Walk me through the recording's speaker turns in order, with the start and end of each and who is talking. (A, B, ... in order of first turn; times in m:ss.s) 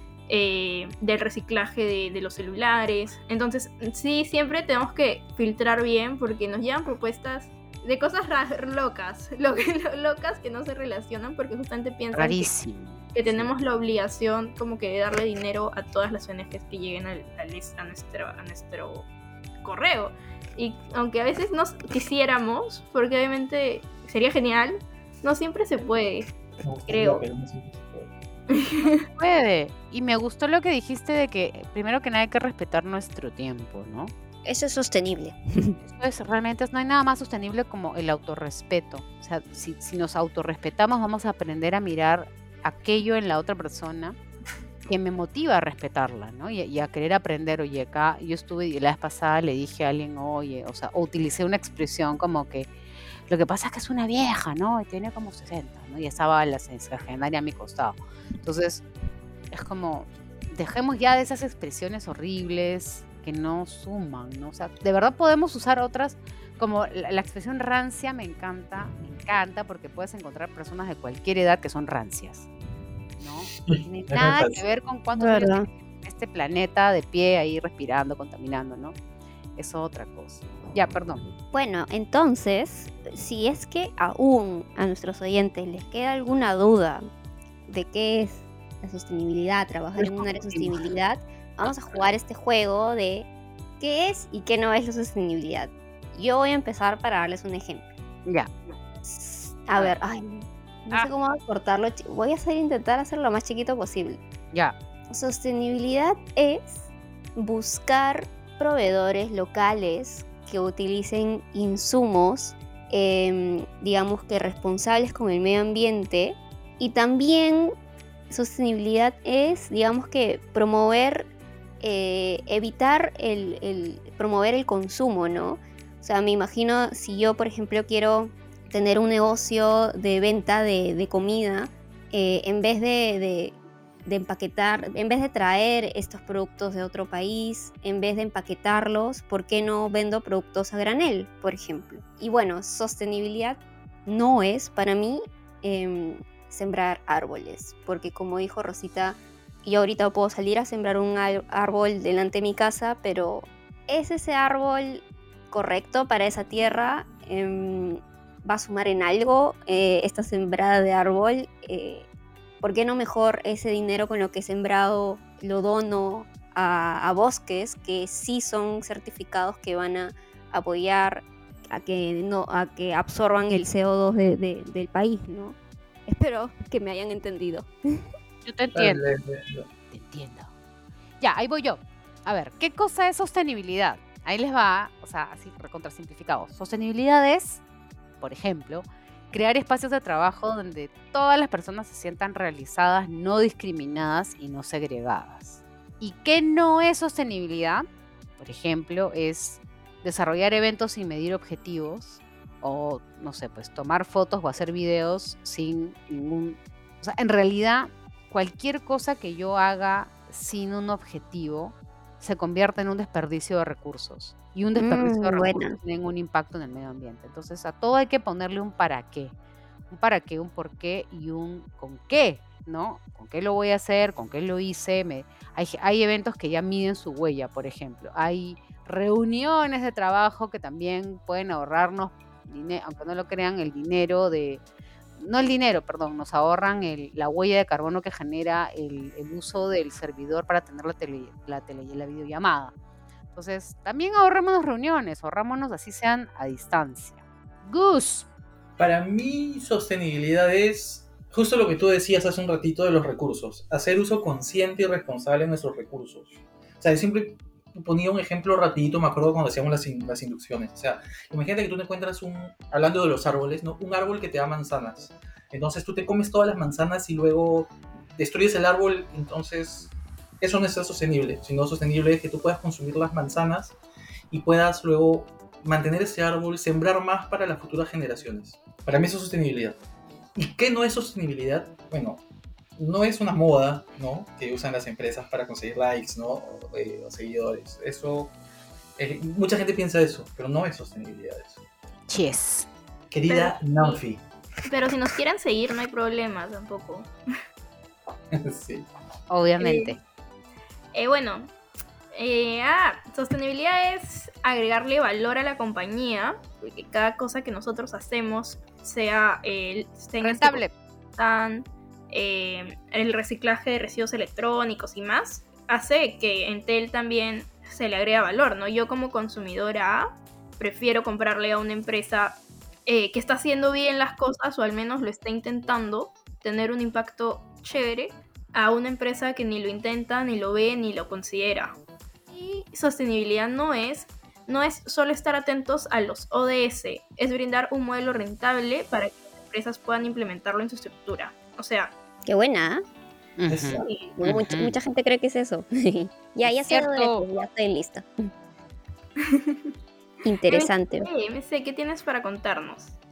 0:00.3-0:12.5 A
0:12.1-0:13.5 B
0:13.1-0:19.0 A
0:19.6-0:26.3 A
0:26.6-0:28.1 C
0:26.9-0:27.2 A
0:28.5-0:29.0 A
0:29.1-0:34.1 B
0:34.4-0:35.8 D
0:35.8-0:44.2 B
0:44.8-0:52.7 B
0:53.3-0:58.8 B
0:59.5-1:12.5 B
1:13.2-1:19.0 B
1:13.6-1:14.6 C
1:15.2-1:15.7 D
1:19.6-1:21.2 B
1:21.5-1:27.0 D
1:27.7-1:33.3 D
1:30.0-1:30.8 B
1:33.8-1:37.9 D
1:38.2-1:38.5 B
1:39.0-1:44.2 D
1:45.1-1:57.7 D
1:58.3-2:01.3 D
2:01.8-2:42.0 D
2:42.6-2:55.6 D
2:56.1-2:58.1 D
2:58.4-2:59.0 B
2:58.7-2:59.7 C
2:59.9-3:00.5 B
3:01.2-3:07.6 B
3:08.2-3:17.8 B
3:18.4-3:39.3 B
3:34.8-3:35.8 D
3:39.9-3:54.6 B
3:55.2-4:02.7 B
4:03.3-4:08.3 B
4:08.8-4:33.8 C
4:34.3-4:39.8 C
4:40.4-4:42.2 C
4:42.8-4:48.3 C
4:49.0-4:51.6 C
4:52.1-4:52.7 B
4:53.1-4:54.2 C
4:53.3-4:54.0 A
4:54.7-4:57.1 A
4:58.3-4:58.9 C
4:59.3-5:00.0 B
4:59.6-5:00.0 A
5:00.9-5:01.5 A
5:02.1-5:10.6 A
5:10.2-5:10.7 B
5:11.2-5:31.8 A
5:32.3-5:41.9 A
5:42.2-5:42.8 D
5:43.4-5:44.7 B
5:43.5-5:43.9 C
5:43.8-5:44.1 A
5:43.9-5:48.3 D
5:46.4-5:47.3 B
5:49.2-5:49.7 A
5:50.2-5:51.1 D
5:50.5-5:53.0 A